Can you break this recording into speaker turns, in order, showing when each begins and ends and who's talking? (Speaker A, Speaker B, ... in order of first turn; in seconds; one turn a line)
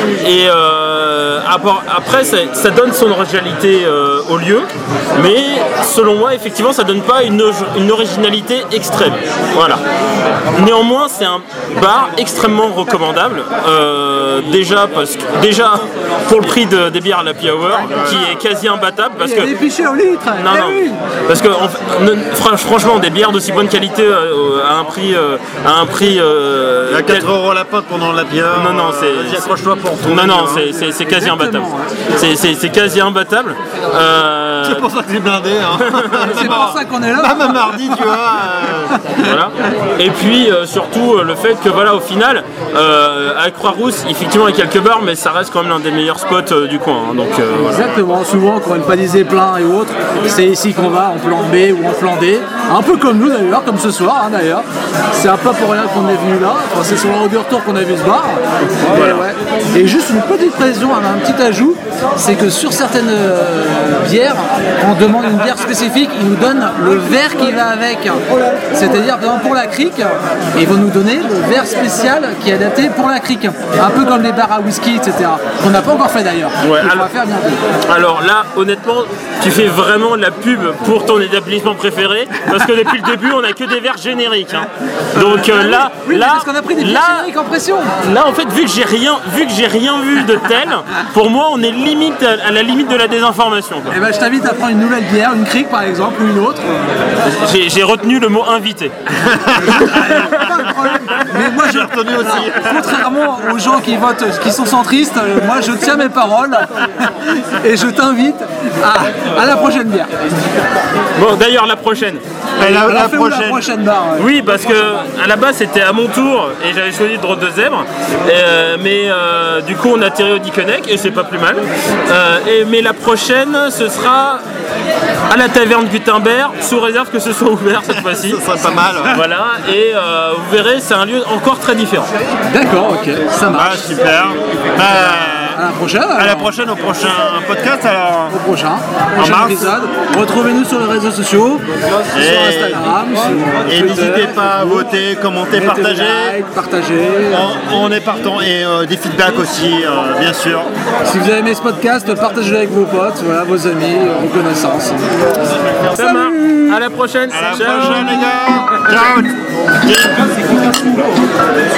Speaker A: 0.2-9.8
Speaker A: 10.5-19.5
Speaker B: 17.9-18.4
Speaker C: 19.2-21.0
Speaker A: 20.4-27.3
Speaker B: 26.9-30.7
Speaker A: 28.5-29.5
Speaker A: 30.0-34.8
Speaker C: 30.8-31.9
Speaker B: 34.6-38.9
Speaker A: 35.7-36.4
Speaker C: 36.2-37.8
Speaker C: 38.9-39.2
Speaker A: 39.2-48.0
Speaker C: 47.5-77.6
Speaker A: 58.6-59.3
Speaker A: 76.6-77.1
Speaker A: 77.8-87.3
Speaker C: 85.1-87.9
Speaker A: 88.0-94.0
Speaker C: 93.9-97.0
Speaker A: 97.2-98.9
Speaker B: 99.2-100.5
Speaker C: 99.5-110.1
Speaker B: 101.3-102.9
Speaker A: 111.1-112.2
Speaker B: 112.6-113.7
Speaker C: 112.6-114.3
Speaker A: 114.2-124.4
Speaker A: 125.3-128.4
Speaker B: 127.9-129.2
Speaker A: 129.1-132.1
Speaker C: 132.5-133.8
Speaker B: 133.5-135.6
Speaker C: 135.5-136.5
Speaker B: 136.2-138.4
Speaker C: 138.3-144.8
Speaker B: 139.2-139.8
Speaker B: 142.1-142.8
Speaker B: 143.6-146.4
Speaker C: 145.5-147.5
Speaker B: 147.3-150.7
Speaker C: 151.0-155.1
Speaker A: 155.9-158.2
Speaker C: 156.0-156.8
Speaker B: 157.3-160.8